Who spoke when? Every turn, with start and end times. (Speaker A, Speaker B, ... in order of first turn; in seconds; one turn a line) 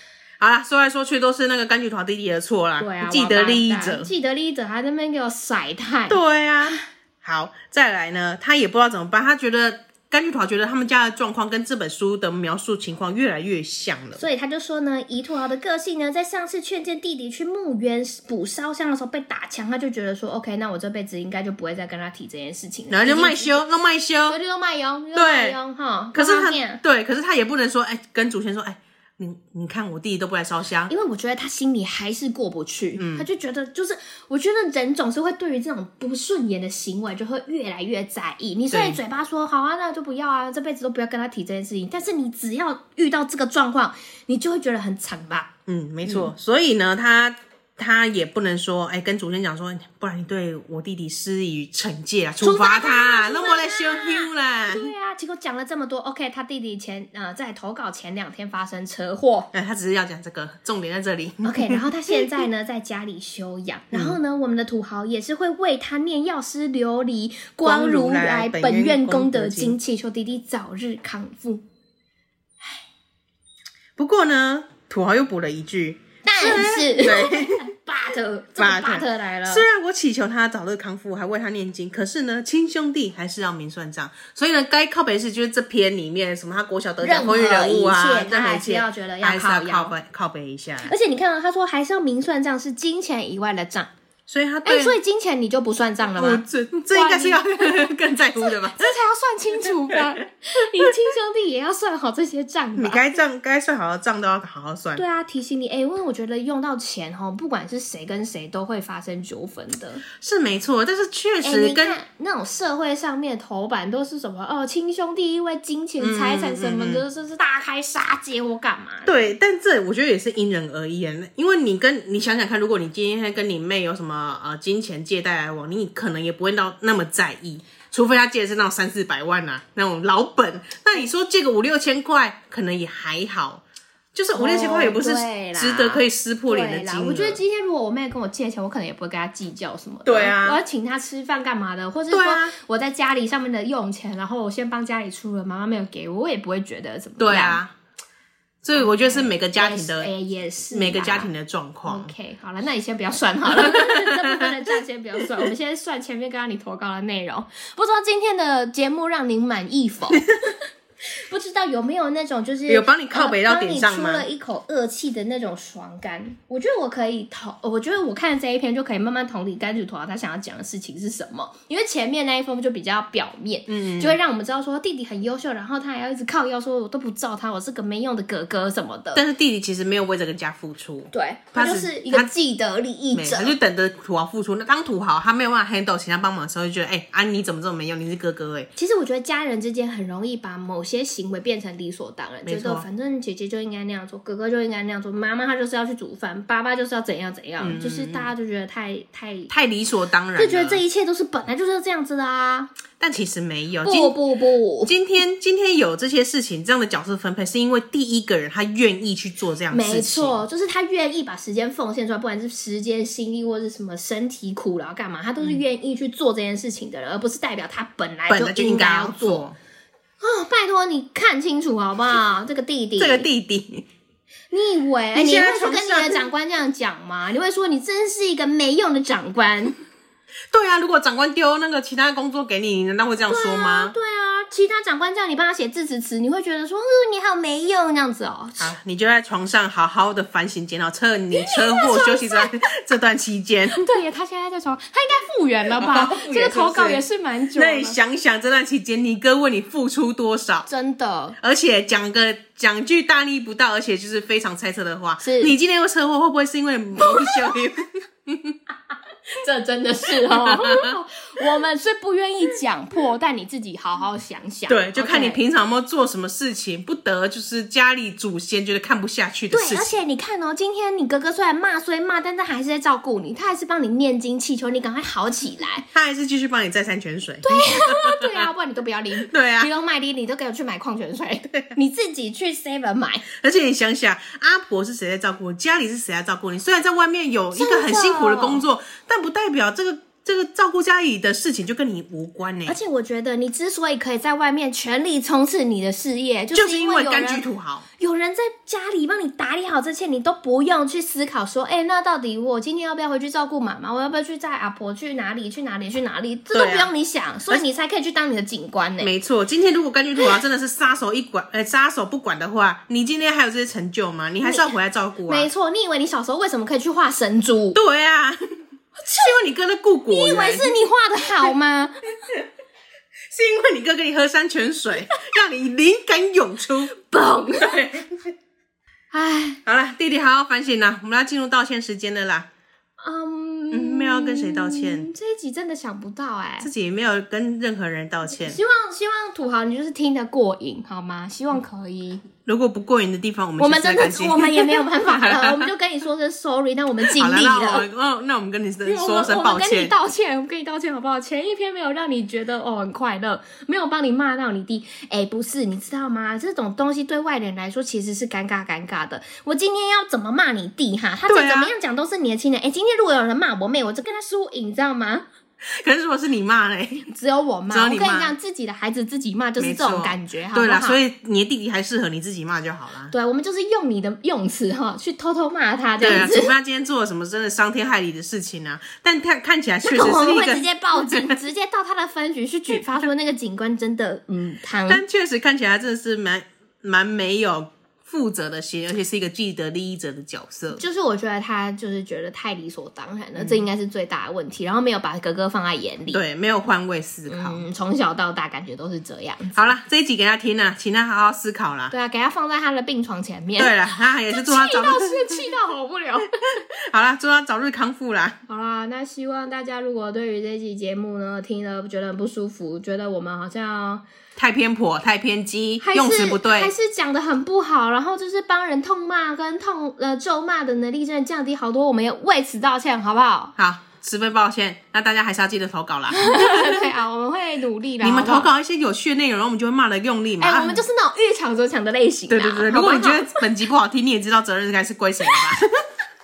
Speaker A: 0.4-4.1
Speaker B: 2.8-6.8
Speaker A: 6.1-14.2
Speaker B: 14.2-23.6
Speaker A: 22.9-24.4
Speaker B: 24.3-26.8
Speaker A: 25.1-25.6
Speaker A: 26.1-30.9
Speaker B: 30.9-45.5
Speaker A: 33.0-33.2
Speaker A: 38.7-39.0
Speaker A: 45.7-54.9
Speaker B: 46.0-46.3
Speaker B: 52.4-59.5
Speaker A: 59.5-62.4
Speaker B: 61.4-71.6
Speaker A: 63.9-64.2
Speaker A: 67.6-69.8
Speaker A: 74.0-77.7
Speaker B: 76.2-79.7
Speaker A: 78.6-90.9
Speaker B: 87.0-89.9
Speaker B: 90.8-93.9
Speaker A: 94.3-95.0
Speaker B: 94.6-103.0
Speaker A: 96.2-98.9
Speaker A: 99.9-100.1
Speaker A: 102.8-105.0
Speaker B: 105.0-110.0
Speaker A: 110.2-112.0
Speaker B: 111.4-119.2
Speaker A: 116.0-117.0
Speaker A: 119.0-133.6
Speaker A: 134.1-137.4
Speaker B: 134.3-147.6
Speaker A: 140.0-140.6
Speaker A: 142.1-142.5
Speaker A: 147.2-147.7
Speaker A: 148.6-150.1
Speaker B: 148.8-151.3
Speaker A: 150.7-152.1
Speaker B: 151.8-160.6
Speaker A: 153.5-154.6
Speaker B: 161.3-179.2
Speaker A: 162.7-164.2
Speaker A: 173.7-174.2
Speaker A: 179.1-182.3
Speaker B: 181.1-183.5
Speaker A: 183.1-188.7
Speaker B: 188.8-199.5
Speaker A: 192.4-192.8
Speaker A: 197.6-198.3
Speaker A: 199.5-200.8
Speaker B: 200.3-202.7
Speaker A: 203.0-204.2
Speaker B: 203.8-204.9
Speaker A: 204.8-210.4
Speaker B: 209.7-219.4
Speaker A: 218.3-219.6
Speaker B: 220.2-223.3
Speaker A: 223.0-223.8
Speaker B: 224.5-229.8
Speaker A: 225.1-226.3
Speaker A: 230.5-233.9
Speaker B: 233.3-238.7
Speaker A: 238.6-243.9
Speaker B: 241.3-242.7
Speaker B: 243.7-248.0
Speaker A: 245.7-247.0
Speaker A: 247.5-250.7
Speaker B: 250.7-251.4
Speaker A: 251.4-258.6
Speaker B: 255.2-255.5
Speaker B: 257.0-257.4
Speaker B: 259.3-265.4
Speaker A: 260.1-261.0
Speaker A: 264.7-269.9
Speaker B: 269.5-275.9
Speaker A: 275.9-278.5
Speaker B: 277.4-283.2
Speaker A: 279.2-279.7
Speaker A: 283.3-292.8
Speaker B: 287.6-288.6
Speaker B: 292.6-297.4
Speaker A: 296.5-297.9
Speaker B: 298.0-309.1
Speaker A: 306.5-306.9
Speaker A: 309.0-315.5
Speaker B: 314.4-314.7
Speaker B: 315.3-317.8
Speaker A: 317.7-318.4
Speaker B: 319.0-319.3
Speaker A: 319.1-320.7
Speaker B: 320.1-322.1
Speaker A: 323.3-326.9
Speaker B: 326.9-328.0
Speaker A: 327.6-328.1
Speaker B: 329.1-329.6
Speaker A: 329.6-332.5
Speaker B: 333.0-336.7
Speaker A: 333.7-335.1
Speaker A: 336.6-338.6
Speaker B: 338.4-342.2
Speaker A: 342.4-345.6
Speaker B: 343.6-347.9
Speaker A: 347.1-349.9
Speaker B: 348.8-365.2
Speaker A: 361.3-361.7
Speaker A: 365.6-367.0
Speaker B: 367.0-371.0
Speaker A: 367.7-368.3
Speaker A: 369.6-373.1
Speaker B: 373.1-376.5
Speaker A: 376.0-381.4
Speaker B: 379.8-385.0
Speaker A: 384.9-390.8
Speaker B: 390.7-396.2
Speaker A: 393.4-393.6
Speaker A: 396.1-397.6
Speaker B: 397.3-399.7
Speaker A: 399.5-401.9
Speaker B: 401.9-406.6
Speaker A: 403.6-405.5
Speaker A: 406.4-408.4
Speaker B: 408.5-414.0
Speaker A: 414.4-416.7
Speaker B: 415.8-423.5
Speaker A: 423.6-426.9
Speaker B: 426.1-428.5
Speaker A: 428.0-430.8
Speaker B: 430.4-433.4
Speaker A: 432.3-435.7